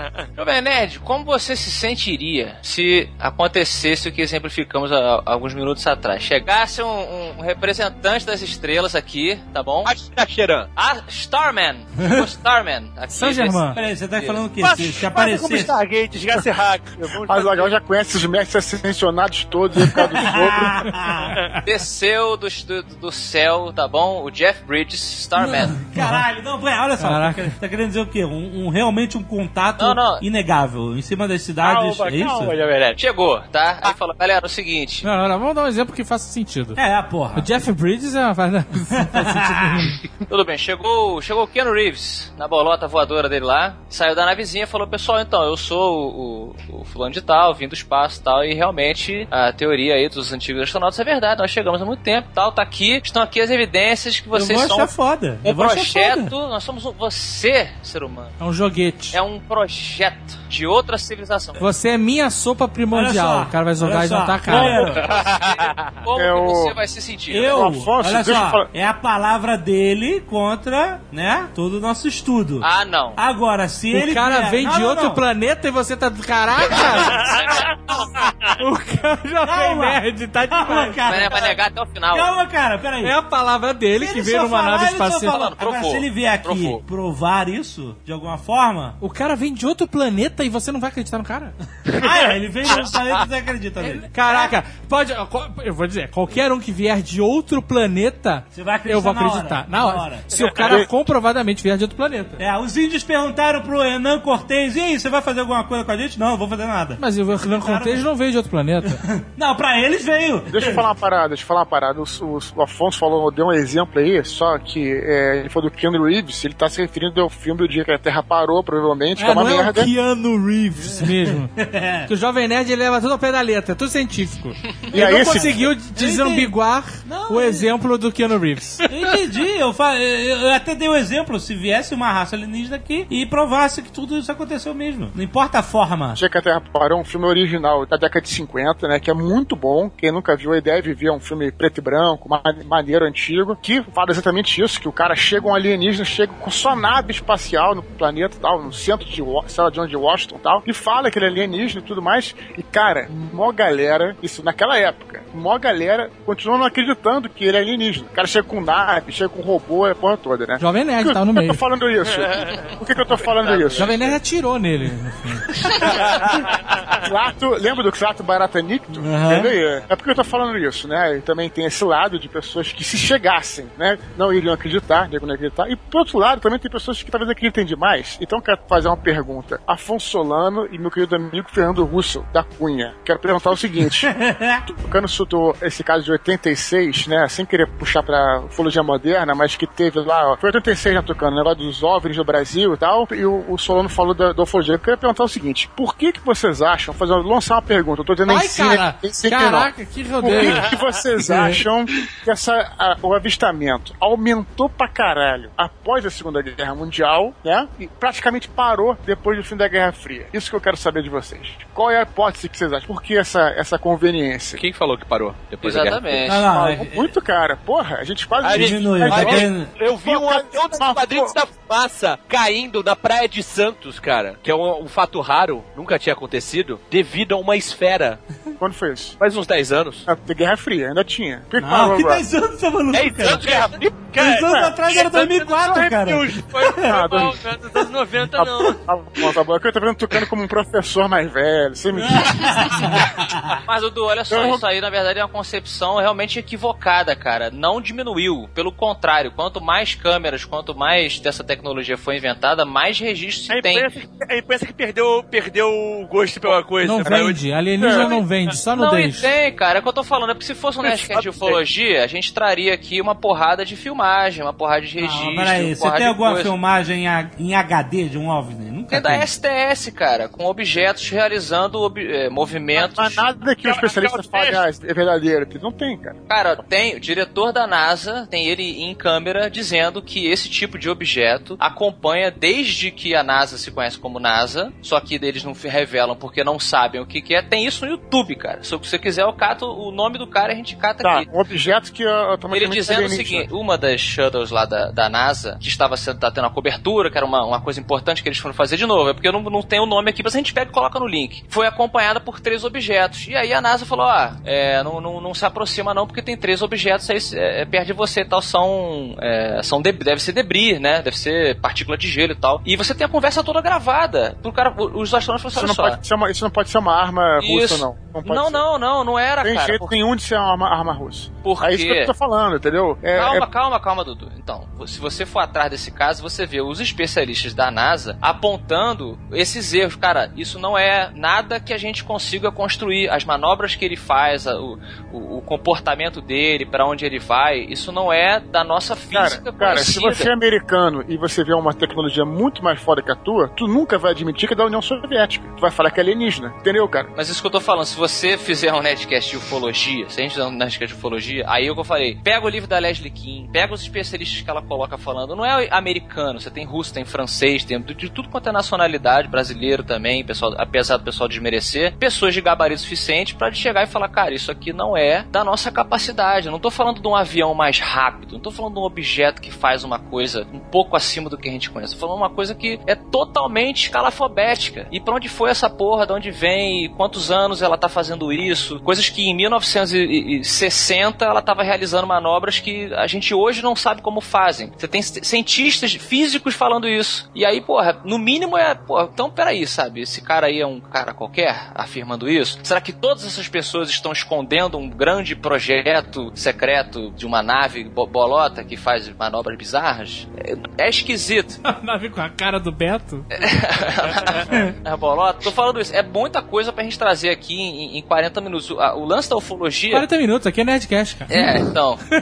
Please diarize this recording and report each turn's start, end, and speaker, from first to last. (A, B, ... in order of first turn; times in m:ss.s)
0:00.4-0:09.9 A
0:09.8-0:10.7 B
0:10.8-0:13.6 A
0:13.1-0:13.8 C
0:13.7-0:15.7 D
0:14.6-0:17.8 E
0:17.2-0:20.9 F
0:20.1-0:21.3 D
0:21.6-0:25.8 A
0:25.4-0:32.6 D
0:26.0-0:26.2 C
0:27.0-0:27.5 C
0:29.8-0:30.2 A
0:31.6-0:33.0 E
0:33.0-0:35.1 A
0:35.0-0:36.8 C
0:36.8-0:37.5 D
0:37.3-0:40.0 C
0:39.0-0:39.9 D
0:40.3-0:54.9 A
0:54.3-0:56.3 D
0:55.4-0:58.4 A
0:58.4-0:59.2 C
0:59.1-1:01.6 A
1:01.6-1:04.8 C
1:02.9-1:05.0 D
1:04.8-1:05.2 E
1:05.5-1:07.7 A
1:06.2-1:06.8 F
1:07.3-1:15.2 D
1:07.5-1:08.7 F
1:12.6-1:13.2 A
1:13.9-1:17.2 C
1:17.0-1:17.7 A
1:17.0-1:18.6 E
1:18.6-1:21.0 C
1:19.4-1:21.6 D
1:21.0-1:22.3 A
1:22.1-1:23.2 D
1:23.0-1:25.4 C
1:24.0-1:29.0 D
1:25.3-1:26.8 A
1:29.0-1:31.6 C
1:32.0-1:34.5 D
1:33.8-1:42.4 C
1:38.5-1:40.3 D
1:40.3-1:40.8 E
1:42.4-1:48.1 D
1:47.0-1:49.0 C
1:48.8-1:50.8 D
1:50.5-1:59.9 F
1:59.2-2:01.5 C
2:00.8-2:02.1 D
2:02.0-2:08.9 C
2:04.9-2:07.7 D
2:04.9-2:05.7 F
2:08.9-2:16.2 D
2:16.2-2:44.0 F
2:40.6-2:41.6 C
2:42.1-2:44.2 E
2:43.8-2:45.5 C
2:46.2-2:47.0 E
2:47.0-3:04.1 F
2:49.0-2:49.5 D
3:04.0-3:04.6 D
3:04.6-3:34.6 F
3:18.3-3:20.7 C
3:20.4-3:21.0 E
3:34.6-3:36.1 B
3:35.6-3:36.5 A
3:36.2-3:37.1 D
3:36.3-3:39.5 F
3:38.4-3:48.2 B
3:38.5-3:39.7 D
3:40.0-3:41.4 F
3:48.6-3:49.2 F
3:49.2-3:50.0 B
3:50.1-3:52.2 F
3:51.6-3:53.4 D
3:52.9-3:54.0 B
3:53.2-3:59.4 E
3:54.1-3:57.2 D
3:56.8-3:57.4 F
3:58.4-4:03.1 F
4:02.0-4:03.2 D
4:03.7-4:13.9 A
4:04.3-4:04.6 F
4:13.5-4:18.2 E
4:16.8-4:19.3 C
4:17.8-4:18.1 F
4:18.7-4:26.5 A
4:20.8-4:21.6 E
4:25.0-4:29.3 D
4:28.9-4:33.2 A
4:32.8-4:36.2 F
4:33.6-4:34.7 E
4:36.3-4:51.3 A
4:51.0-4:53.5 F
4:52.5-5:16.0 A
5:15.5-5:18.6 F
5:17.4-5:19.9 A
5:19.4-5:23.5 F
5:21.4-5:22.1 A
5:23.2-5:40.3 A
5:39.1-5:47.1 F
5:47.2-6:41.6 A
6:41.6-6:43.3 C
6:43.3-6:50.1 A
6:49.9-6:51.5 C
6:51.3-6:52.0 A